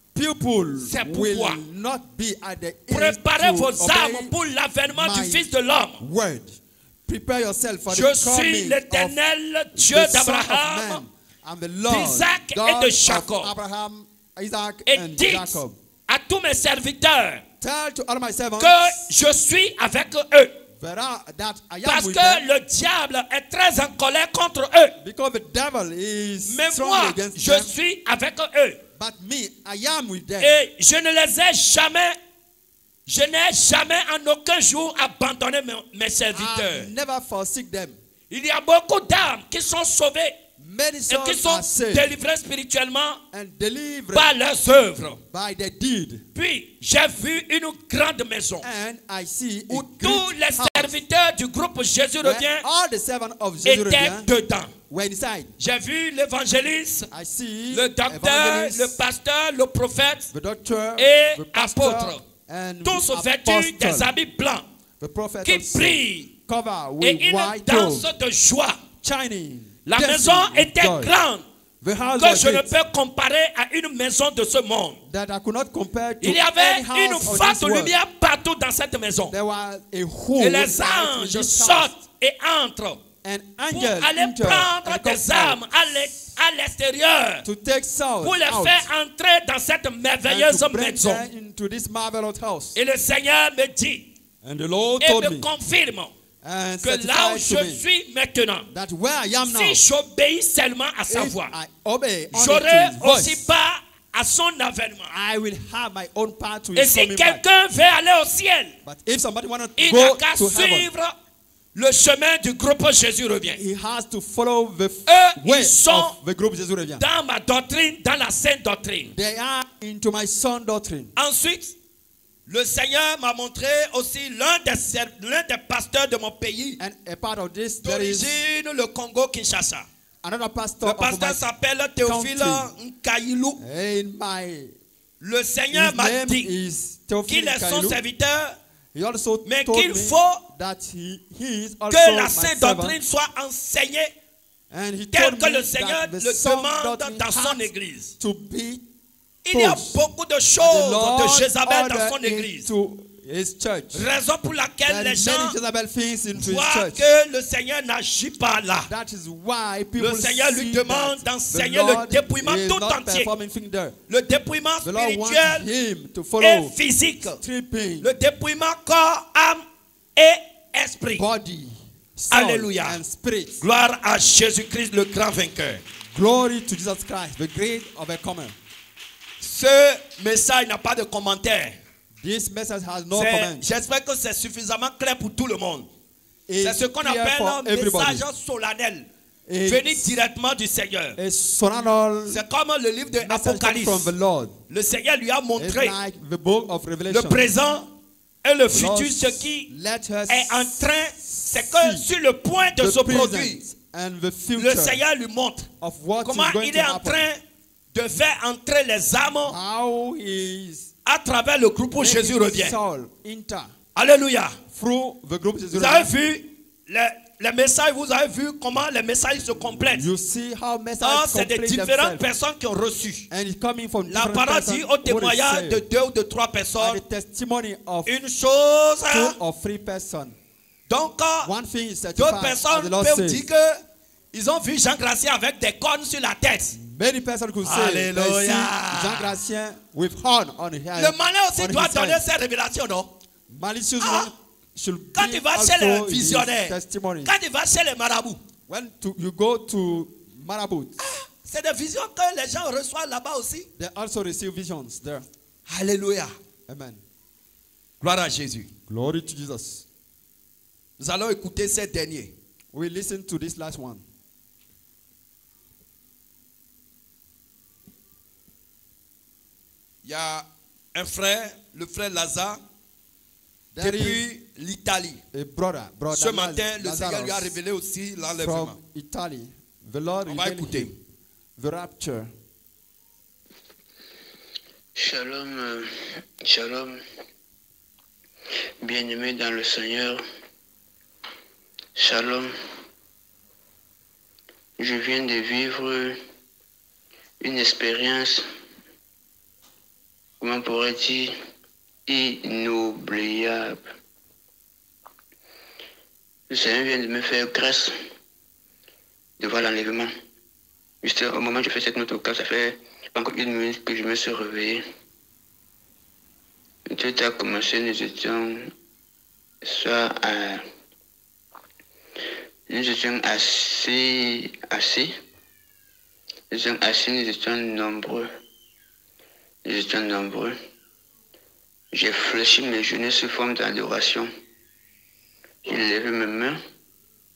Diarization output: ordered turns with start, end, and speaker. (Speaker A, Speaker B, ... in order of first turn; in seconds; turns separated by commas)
Speaker A: 0.1-4.3, Speaker B: 0.8-1.6, Speaker B: 2.9-6.0, Speaker A: 4.9-9.2, Speaker B: 7.9-11.0, Speaker A: 9.8-15.8, Speaker B: 11.9-13.5, Speaker B: 14.9-17.4, Speaker A: 17.6-19.0, Speaker B: 18.6-20.6, Speaker A: 20.8-22.5, Speaker B: 21.9-25.0, Speaker A: 25.0-27.7, Speaker B: 26.5-28.8, Speaker A: 29.0-30.6, Speaker B: 30.4-32.2, Speaker B: 33.1-36.9, Speaker A: 36.3-38.0, Speaker B: 38.3-40.4, Speaker A: 40.6-42.1, Speaker B: 41.1-43.2, Speaker A: 43.3-44.3, Speaker B: 44.1-45.2, Speaker A: 45.3-46.2, Speaker B: 46.4-48.7, Speaker A: 48.6-51.0, Speaker B: 49.7-52.7, Speaker A: 52.2-54.3, Speaker B: 53.6-54.7, Speaker A: 54.9-55.5, Speaker B: 55.6-57.1, Speaker A: 57.1-59.0, Speaker B: 57.7-60.3, Speaker A: 60.3-64.1, Speaker B: 61.0-62.2, Speaker B: 62.8-64.7, Speaker A: 65.0-68.1, Speaker B: 65.5-66.3, Speaker B: 67.0-68.8, Speaker A: 69.0-71.1, Speaker B: 69.9-71.5, Speaker A: 71.8-72.7, Speaker B: 72.2-75.0, Speaker A: 75.1-77.9, Speaker B: 76.2-79.3, Speaker A: 79.3-82.0, Speaker B: 80.4-83.0, Speaker A: 83.2-86.3, Speaker B: 83.7-87.5, Speaker A: 87.4-88.9, Speaker B: 88.2-91.2, Speaker A: 90.3-92.8, Speaker B: 92.8-94.1, Speaker A: 94.4-95.5, Speaker B: 95.0-96.1, Speaker A: 96.4-97.8, Speaker B: 96.8-98.7, Speaker A: 98.7-99.8, Speaker B: 99.4-101.5, Speaker A: 101.1-103.5, Speaker B: 102.3-105.1, Speaker A: 105.1-107.4, Speaker B: 106.8-108.8, Speaker A: 108.8-110.9, Speaker B: 109.8-111.1, Speaker B: 111.8-113.6, Speaker A: 113.6-117.0, Speaker B: 115.1-116.2, Speaker B: 117.0-119.1, Speaker A: 119.1-121.1, Speaker B: 121.2-121.8, Speaker B: 122.5-126.8, Speaker A: 126.8-128.3, Speaker B: 127.8-129.9, Speaker A: 130.2-131.4, Speaker B: 130.8-133.6, Speaker A: 132.0-132.7, Speaker A: 133.6-134.8, Speaker B: 135.2-136.5, Speaker A: 135.7-138.0, Speaker B: 137.3-138.6, Speaker A: 138.9-143.0, Speaker B: 139.4-140.4, Speaker B: 141.9-144.1, Speaker A: 144.7-147.7, Speaker B: 145.1-148.1, Speaker A: 148.2-148.8, Speaker B: 149.5-152.7, Speaker A: 149.5-150.0, Speaker A: 150.6-154.1, Speaker B: 153.9-155.6, Speaker A: 154.9-157.1, Speaker B: 156.3-158.9, Speaker A: 158.9-164.0, Speaker B: 160.0-163.3, Speaker B: 164.1-165.7, Speaker A: 164.8-166.8, Speaker B: 166.4-167.4, Speaker A: 167.4-168.1, Speaker B: 168.0-169.6, Speaker B: 170.2-171.2, Speaker A: 171.2-173.7, Speaker B: 172.3-173.0, Speaker B: 173.6-175.8, Speaker A: 176.1-178.6, Speaker B: 179.4-181.8, Speaker A: 182.2-183.7, Speaker B: 183.1-185.9, Speaker A: 186.5-188.2, Speaker B: 186.6-189.1, Speaker A: 189.5-190.1, Speaker B: 189.7-191.2, Speaker A: 191.2-192.4, Speaker B: 192.3-194.1, Speaker A: 193.2-194.6, Speaker B: 194.7-195.9, Speaker A: 195.6-197.5, Speaker B: 197.1-197.9, Speaker B: 198.4-199.7, Speaker A: 198.7-202.1, Speaker B: 200.3-203.6, Speaker A: 202.8-205.0, Speaker B: 204.6-205.7, Speaker A: 205.8-207.2, Speaker B: 206.2-207.4, Speaker B: 207.9-209.6, Speaker A: 209.4-210.9, Speaker B: 211.1-212.8, Speaker A: 212.0-213.8, Speaker B: 214.0-214.6, Speaker A: 214.7-216.1, Speaker B: 215.7-220.1, Speaker A: 219.9-222.2, Speaker B: 221.0-223.3, Speaker A: 223.3-225.8, Speaker B: 224.1-227.0, Speaker A: 226.8-228.1, Speaker B: 228.1-229.4, Speaker A: 229.1-230.4, Speaker B: 230.9-231.5, Speaker A: 231.4-233.4, Speaker B: 232.2-233.8, Speaker B: 234.3-236.8, Speaker A: 236.8-242.2, Speaker B: 237.6-239.4, Speaker B: 241.0-243.1, Speaker A: 243.5-247.3, Speaker B: 244.0-244.3, Speaker B: 245.2-248.4, Speaker A: 248.7-251.0, Speaker B: 251.0-253.7, Speaker A: 253.8-255.3, Speaker B: 255.7-256.3, Speaker A: 256.7-257.0, Speaker B: 258.0-258.7, Speaker A: 258.9-259.9, Speaker B: 261.0-262.3, Speaker A: 262.7-264.0, Speaker B: 270.0-272.6, Speaker A: 273.7-274.2, Speaker B: 273.8-275.2, Speaker A: 275.3-277.6, Speaker B: 276.1-278.8, Speaker A: 278.4-280.9, Speaker B: 280.3-280.9, Speaker A: 281.6-282.3, Speaker C: 285.0-285.9, Speaker C: 286.4-287.0, Speaker C: 288.8-290.2, Speaker C: 292.0-292.5, Speaker C: 294.8-296.2, Speaker C: 297.4-298.4, Speaker C: 300.4-301.3, Speaker C: 302.1-303.8, Speaker C: 306.5-307.9, Speaker C: 309.4-310.1, Speaker C: 311.0-314.8, Speaker C: 316.9-318.7, Speaker C: 319.7-320.6, Speaker C: 322.7-325.1, Speaker C: 326.5-328.3, Speaker C: 329.6-330.6, Speaker C: 331.9-334.3, Speaker C: 335.6-336.6